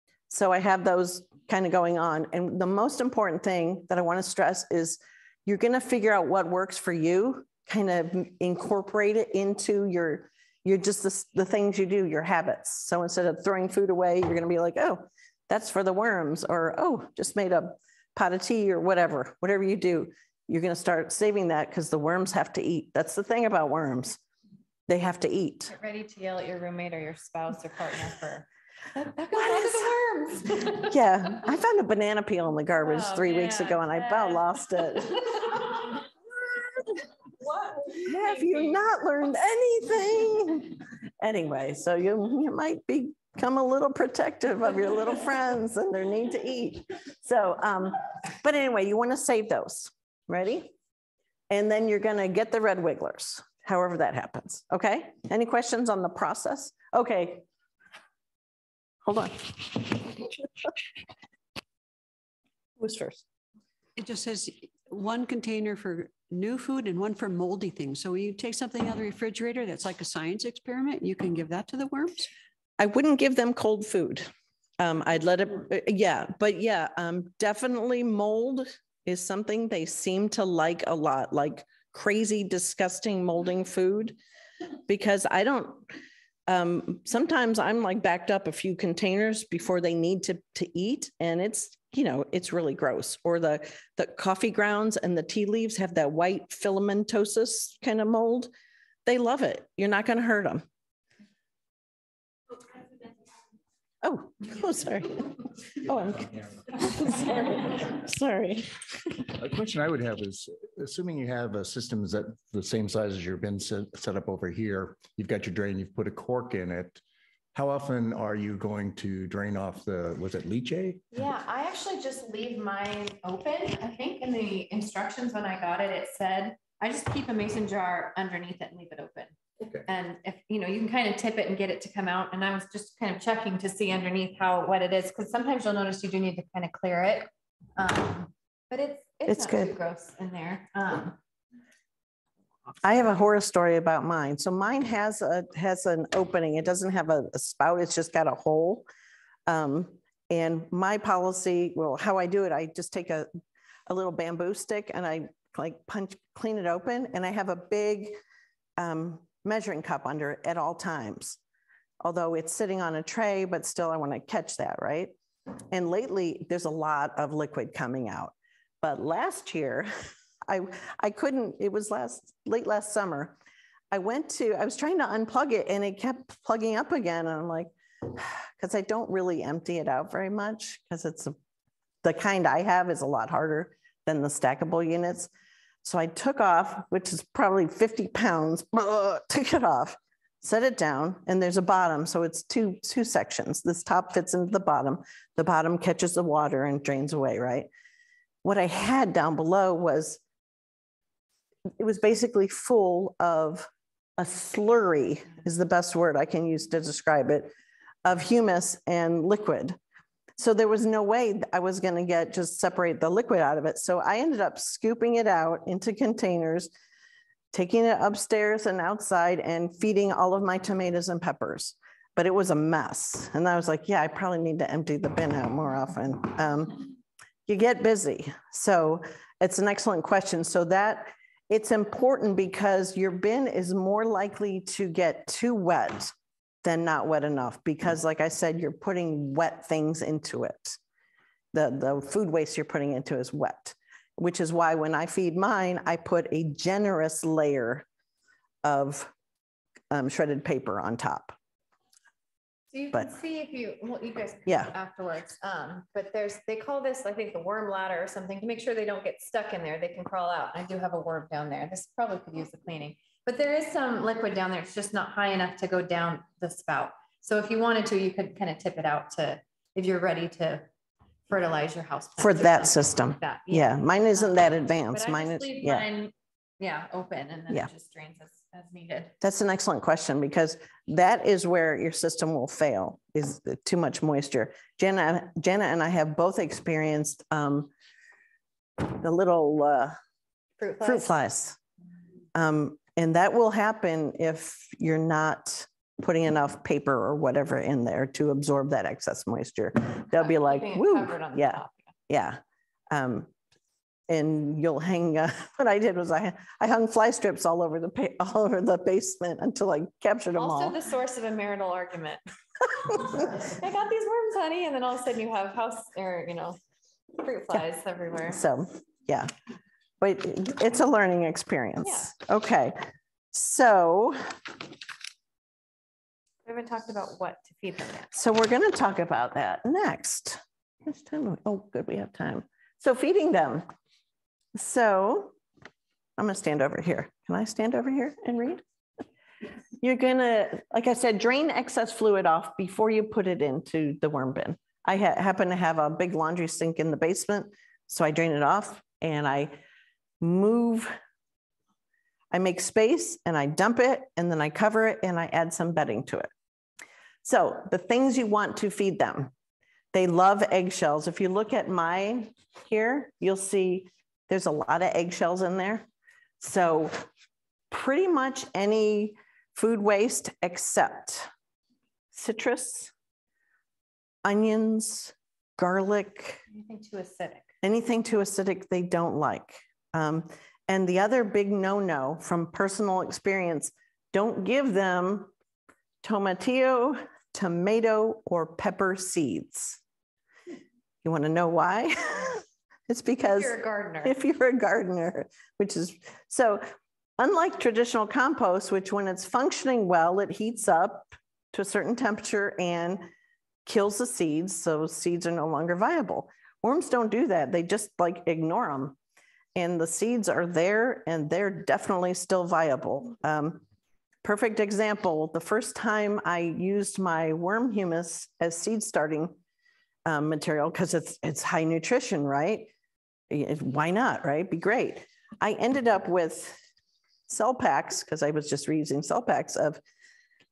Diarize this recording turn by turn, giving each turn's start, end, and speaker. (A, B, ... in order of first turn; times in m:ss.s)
0:00.3-0:24.2 A
0:24.9-0:25.7 A
0:25.7-0:31.0 B
0:29.4-0:29.9 A
0:30.8-0:35.5 A
0:32.8-0:35.9 B
0:37.4-0:38.5 B
0:38.0-0:50.7 A
0:51.5-0:57.4 A
0:59.0-1:00.7 A
1:02.8-1:03.2 A
1:04.0-1:12.3 C
1:12.8-1:14.3 A
1:14.8-1:24.2 A
1:24.9-1:25.9 A
1:26.5-1:38.5 A
1:39.1-1:40.6 A
1:44.0-1:48.7 A
1:49.4-1:57.0 D
1:57.5-2:01.0 D
2:01.1-2:09.4 B
2:09.9-2:21.2 B
2:19.3-2:19.7 A
2:22.8-2:28.9 A
2:29.5-2:33.3 A
2:33.9-2:38.2 A
2:38.8-2:41.4 A
2:42.0-2:45.2 A
2:45.7-2:49.9 A
2:50.5-2:53.4 A
2:53.9-3:01.4 A
3:02.0-3:05.3 A
3:05.8-3:17.7 A
3:18.4-3:20.2 A
3:21.8-3:27.5 A
3:28.0-3:29.8 A
3:30.4-3:36.7 A
3:37.5-3:46.9 A
3:47.5-4:00.8 A
4:01.5-4:07.9 A
4:08.6-4:09.1 A
4:09.9-4:11.4 A
4:12.7-4:30.6 B
4:14.5-4:14.7 A
4:31.3-4:39.2 B
4:32.2-4:35.9 A
4:39.2-4:47.7 A
4:48.8-4:50.0 A
4:50.6-4:51.1 B
4:50.8-4:51.6 A
4:52.4-5:03.3 A
5:00.1-5:01.9 B
5:04.1-5:10.8 A
5:10.4-5:12.2 B
5:12.8-5:13.3 A
5:13.2-5:16.6 B
5:17.2-5:18.4 B
5:18.3-5:19.3 A
5:20.0-5:22.8 A
5:21.8-5:22.1 B
5:23.3-5:24.3 A
5:26.4-5:28.1 B
5:28.1-5:33.7 A
5:34.6-5:35.4 A
5:36.2-5:38.6 A
5:39.8-5:49.6 A
5:50.2-5:51.0 A
5:52.3-5:56.3 A
5:57.2-5:59.3 A
5:59.9-6:05.9 A
6:06.4-6:07.1 A
6:07.7-6:11.3 A
6:12.1-6:12.9 A
6:14.2-6:16.4 A
6:16.5-6:17.5 B
6:17.6-6:25.3 A
6:26.0-6:29.8 A
6:31.0-6:36.6 A
6:33.2-6:34.2 B
6:37.2-6:43.1 A
6:43.7-6:49.0 A
6:49.6-6:53.6 A
6:54.2-6:59.4 A
7:00.1-7:02.7 A
7:03.3-7:06.6 A
7:07.3-7:09.8 A